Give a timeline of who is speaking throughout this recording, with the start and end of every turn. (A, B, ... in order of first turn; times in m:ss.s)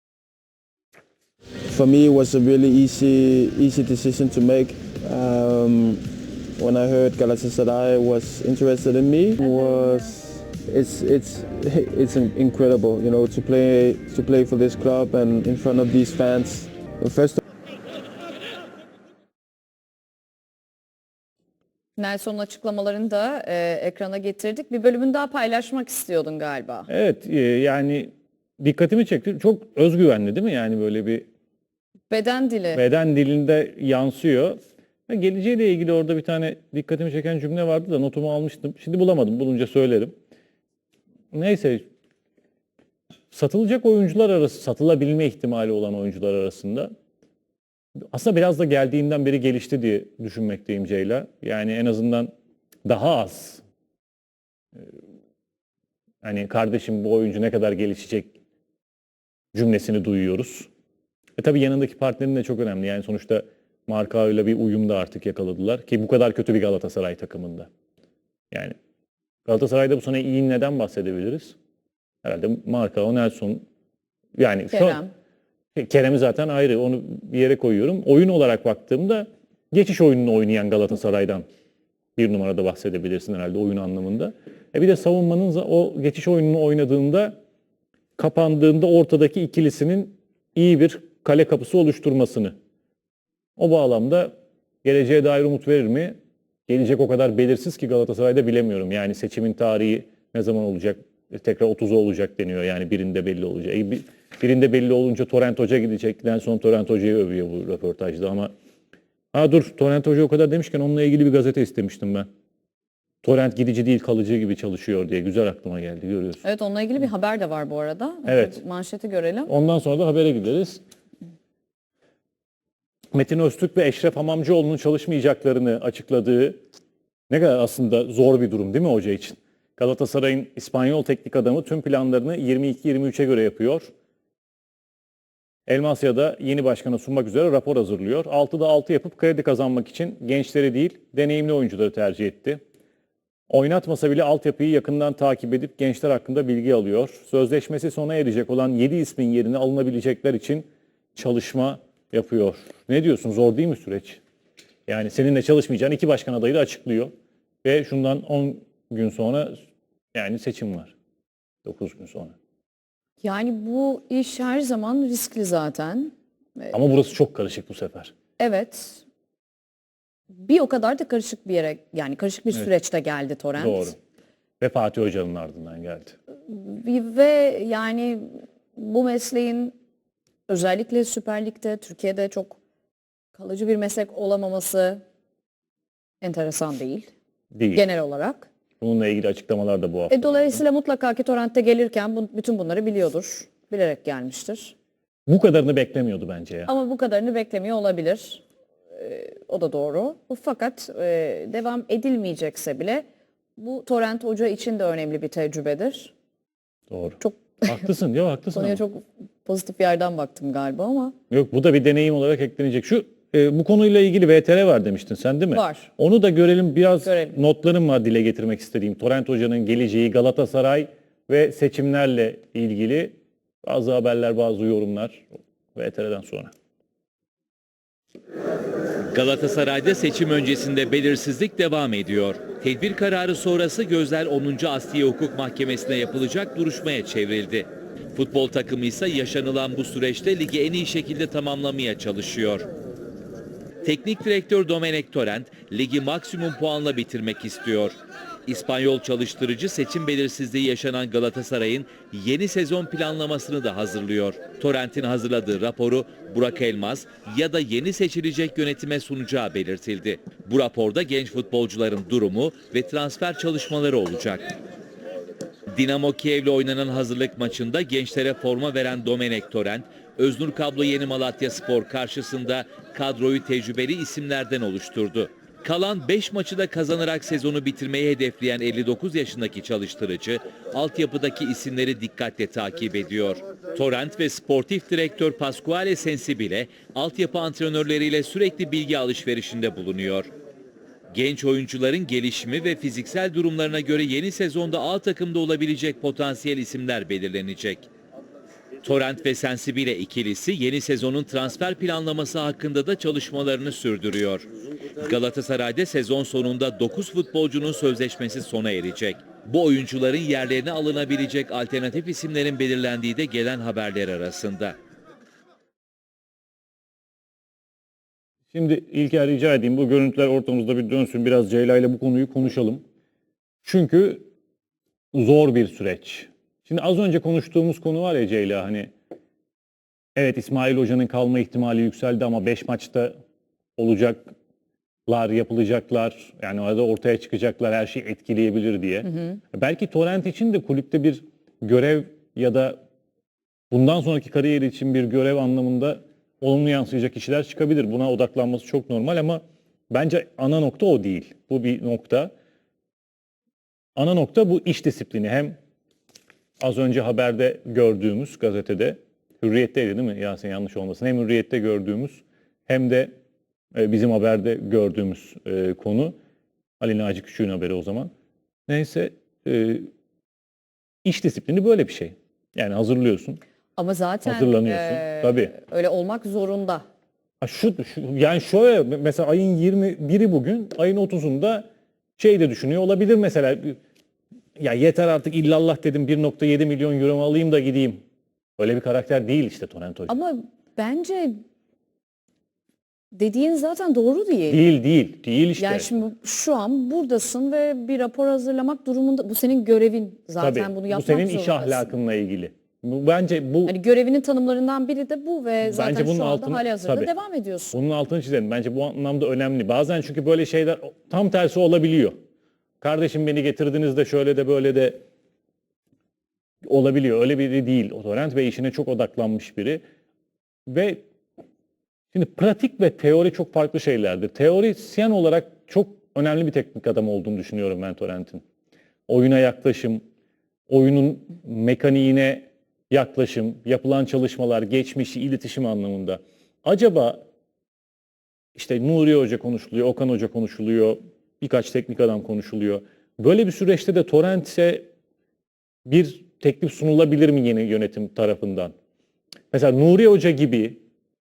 0:01.7-0:06.0 A
0:06.6-0:17.4 A
0:09.5-0:10.1 B
0:22.0-0:26.9 B
0:26.9-0:31.2 C
0:32.1-0:32.8 B
0:32.7-0:34.6 C
0:35.1-0:40.1 C
0:41.3-0:41.8 C
0:43.3-0:46.9 C
0:48.1-0:52.3 C
0:52.8-0:53.6 C
0:56.2-0:58.3 C
0:59.5-1:00.7 C
1:01.4-1:07.7 C
1:09.4-1:11.5 C
1:12.2-1:13.6 C
1:14.4-1:15.0 C
1:14.7-1:15.1 B
1:15.8-1:21.4 C
1:22.2-1:27.3 C
1:28.2-1:32.5 C
1:33.6-1:34.3 C
1:34.8-1:36.1 C
1:36.7-1:48.5 C
1:49.3-1:52.3 C
1:53.2-1:56.4 C
1:56.4-1:59.5 B
1:58.2-1:58.6 C
1:59.5-2:00.8 C
2:03.1-2:06.6 C
2:07.3-2:13.9 C
2:15.7-2:22.6 C
2:23.5-2:34.2 C
2:34.9-2:37.1 C
2:37.6-2:39.6 C
2:40.1-2:40.9 C
2:41.6-2:42.3 C
2:43.2-2:46.7 B
2:46.7-2:48.1 C
2:48.4-2:49.0 B
2:50.3-2:53.9 B
2:53.6-2:53.9 C
2:54.6-2:56.2 C
2:56.4-2:59.8 B
3:00.5-3:02.6 B
3:03.3-3:05.0 B
3:06.2-3:07.1 B
3:07.5-3:07.8 C
3:07.7-3:08.5 B
3:08.8-3:10.6 C
3:10.1-3:14.7 B
3:15.3-3:16.7 C
3:16.7-3:23.0 B
3:23.6-3:26.1 B
3:26.9-3:28.8 C
3:27.2-3:27.6 B
3:28.5-3:31.1 B
3:31.3-3:46.5 C
3:35.5-3:35.9 B
3:37.0-3:37.3 B
3:49.1-4:02.7 D
4:03.8-4:24.6 D
4:25.7-4:50.3 D
4:51.1-4:57.9 D
4:58.8-5:14.8 D
5:18.5-5:22.8 C
5:23.6-5:24.2 C
5:25.1-5:28.9 C
5:30.2-5:33.1 C
5:33.8-5:34.3 C
5:35.1-5:42.8 C
5:43.7-5:52.3 C
5:54.0-5:55.6 C
5:56.6-6:03.1 C
6:03.7-6:06.1 C
6:06.8-6:08.1 C
6:08.7-6:09.9 C
6:11.0-6:13.4 C
6:13.8-6:16.8 B
6:14.2-6:15.5 C
6:17.4-6:21.6 C
6:22.2-6:23.8 C
6:24.6-6:28.0 C
6:28.6-6:30.1 C
6:30.1-6:31.4 B
6:33.1-6:34.6 B
6:34.5-6:35.9 C
6:35.6-6:41.9 B
6:40.4-6:43.8 C
6:43.6-6:47.8 B
6:45.6-6:47.1 C
6:47.7-6:52.1 C
6:52.8-6:55.0 C
6:56.6-6:59.8 C
7:00.7-7:01.0 C
7:02.1-7:08.4 C
7:09.1-7:10.0 C
7:10.7-7:17.2 C
7:18.6-7:24.9 C
7:25.8-7:28.7 C
7:29.5-7:30.8 C